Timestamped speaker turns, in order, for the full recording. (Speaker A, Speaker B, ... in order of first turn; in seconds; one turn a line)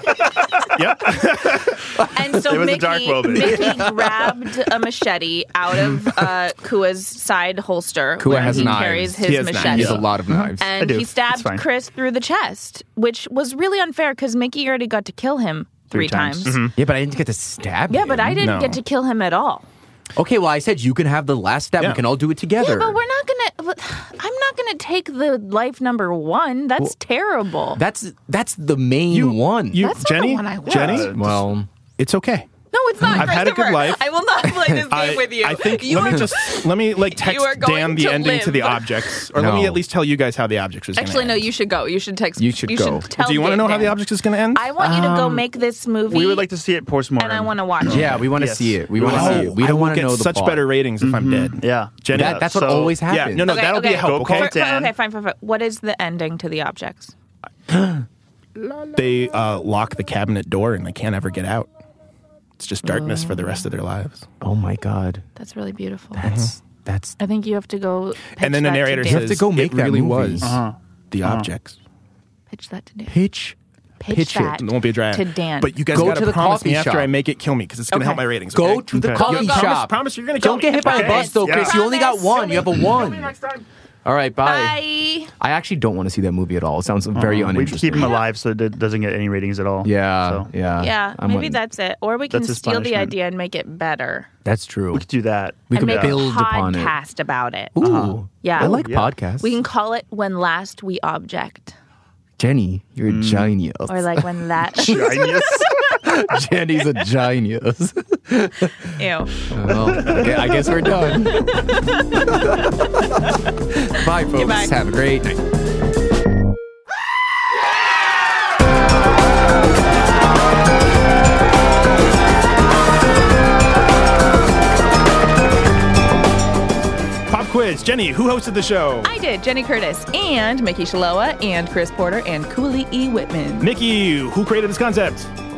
Speaker A: 0.8-1.8
Speaker B: 2.1-16.7
Speaker C: 2.4-3.9
Speaker D: 3.4-4.2
Speaker D: 8.2-10.8
Speaker C: 8.3-8.8
Speaker A: 8.4-10.1
Speaker C: 9.8-11.6
Speaker C: 15.9-16.6
Speaker A: 16.5-16.8
Speaker D: 16.8-18.4
Speaker B: 17.9-19.7
Speaker A: 18.4-18.8
Speaker D: 20.2-23.0
Speaker B: 22.6-27.8
Speaker D: 27.8-29.9
Speaker A: 29.1-31.2
Speaker B: 29.8-31.1
Speaker C: 30.6-31.4
Speaker D: 31.1-31.7
Speaker A: 32.0-32.5
Speaker B: 32.7-39.1
Speaker A: 33.1-34.1
Speaker A: 34.7-41.5
Speaker D: 39.4-39.8
Speaker B: 41.0-44.0
Speaker D: 42.4-43.1
Speaker A: 43.1-44.7
Speaker B: 44.5-46.5
Speaker D: 44.8-45.4
Speaker C: 46.1-49.5
Speaker B: 47.2-48.2
Speaker D: 47.9-50.6
Speaker A: 49.0-54.5
Speaker C: 51.0-53.0
Speaker D: 52.1-53.6
Speaker B: 53.4-57.1
Speaker C: 53.9-54.9
Speaker A: 59.0-61.7
Speaker A: 62.6-64.3
Speaker D: 64.4-65.3
Speaker B: 65.4-66.3
Speaker D: 66.2-67.2
Speaker A: 66.2-66.5
Speaker B: 67.2-69.4
Speaker A: 68.4-70.6
Speaker D: 69.0-70.6
Speaker C: 70.4-71.5
Speaker A: 71.1-71.8
Speaker B: 72.5-73.2
Speaker D: 73.1-73.5
Speaker B: 74.0-75.8
Speaker D: 74.1-74.6
Speaker A: 74.5-81.4
Speaker D: 75.9-77.1
Speaker B: 77.9-78.2
Speaker D: 78.5-83.4
Speaker C: 78.9-79.2
Speaker B: 79.2-79.8
Speaker B: 80.7-82.9
Speaker C: 80.9-81.8
Speaker A: 83.0-83.6
Speaker D: 84.0-88.2
Speaker B: 84.4-85.3
Speaker C: 87.2-90.5
Speaker B: 87.9-88.3
Speaker D: 89.8-91.6
Speaker B: 90.8-94.3
Speaker C: 92.3-93.1
Speaker D: 94.4-95.0
Speaker C: 94.9-96.2
Speaker D: 95.7-97.0
Speaker B: 95.7-97.8
Speaker D: 97.8-99.6
Speaker C: 97.8-99.1
Speaker B: 98.4-101.8
Speaker D: 102.4-113.1
Speaker C: 103.1-103.5
Speaker B: 103.9-105.8
Speaker C: 104.8-105.7
Speaker B: 109.0-109.3
Speaker C: 109.7-110.5
Speaker B: 111.3-112.2
Speaker D: 113.8-115.4
Speaker B: 114.0-114.7
Speaker A: 127.3-129.1
Speaker B: 129.0-133.7
Speaker A: 133.6-135.3